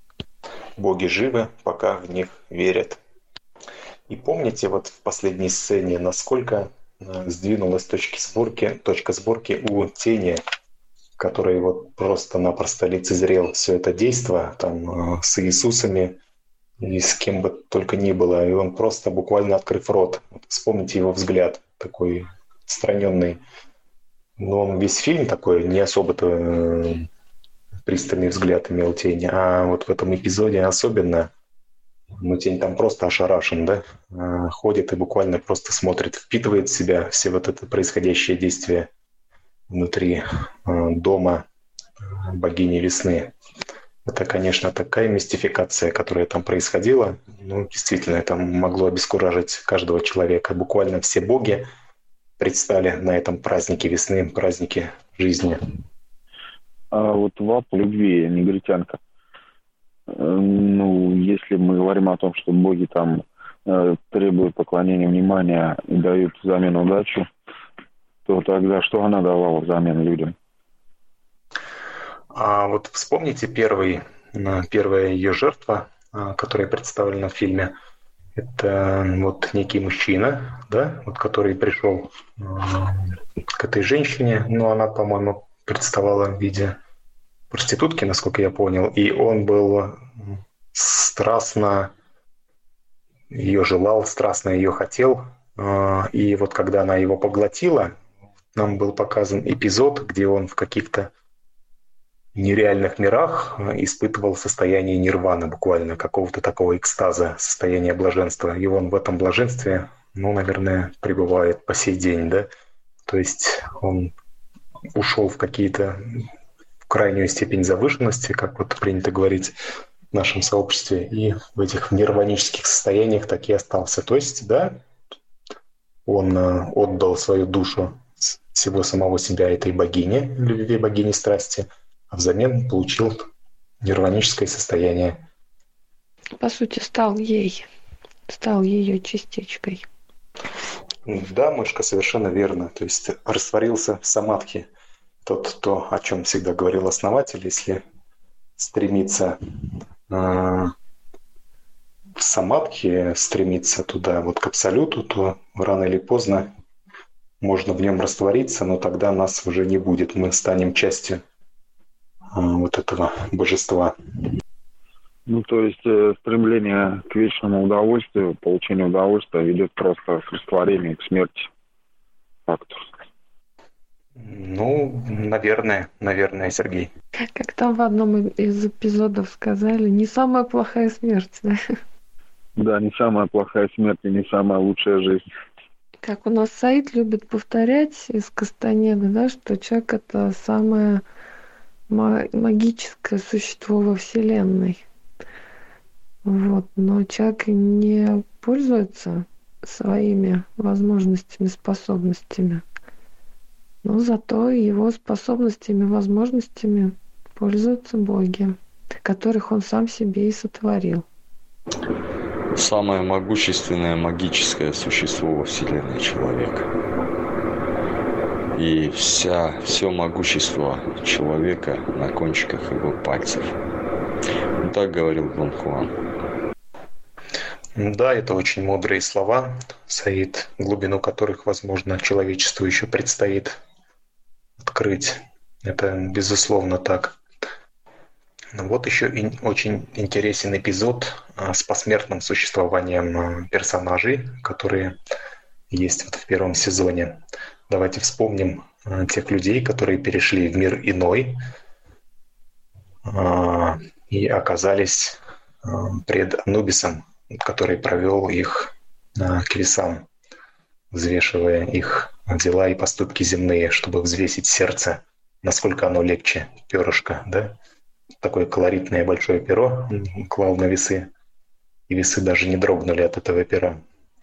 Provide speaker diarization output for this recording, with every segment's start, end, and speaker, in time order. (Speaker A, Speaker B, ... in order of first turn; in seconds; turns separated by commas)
Speaker A: 0.8-3.0, Speaker A: 4.1-10.4, Speaker A: 11.2-16.2, Speaker A: 16.8-23.4, Speaker A: 24.4-27.1, Speaker A: 27.9-31.3, Speaker A: 32.1-38.9, Speaker A: 39.7-41.5, Speaker A: 42.0-43.3, Speaker A: 44.0-51.7, Speaker A: 52.4-55.6, Speaker B: 56.9-59.0, Speaker B: 60.1-67.3, Speaker B: 68.3-70.3, Speaker A: 72.3-77.7, Speaker A: 78.4-86.8, Speaker A: 87.5-91.9, Speaker A: 93.3-98.0, Speaker A: 98.5-101.1, Speaker A: 102.3-112.5, Speaker A: 113.1-114.1, Speaker A: 115.0-116.2, Speaker A: 116.9-119.5, Speaker A: 120.1-124.8, Speaker A: 126.1-133.3, Speaker A: 133.8-135.2, Speaker C: 136.4-137.7, Speaker C: 138.3-139.9, Speaker A: 141.1-144.7, Speaker A: 145.2-147.8, Speaker A: 148.6-149.4, Speaker A: 150.1-150.7, Speaker A: 152.2-156.5, Speaker A: 157.4-161.2, Speaker A: 162.3-164.0, Speaker B: 165.3-171.5, Speaker B: 172.5-172.9, Speaker A: 174.2-176.9, Speaker C: 177.3-181.6, Speaker B: 182.6-185.2, Speaker C: 186.0-191.0, Speaker C: 191.9-194.8, Speaker C: 196.2-202.6, Speaker C: 203.8-211.1, Speaker D: 212.6-216.7, Speaker D: 218.5-223.5, Speaker D: 224.6-225.9, Speaker A: 227.8-233.6, Speaker A: 234.6-237.2, Speaker A: 238.5-245.0, Speaker A: 245.7-251.4, Speaker A: 253.1-260.1, Speaker A: 260.9-267.6, Speaker A: 268.2-271.1, Speaker A: 271.9-273.8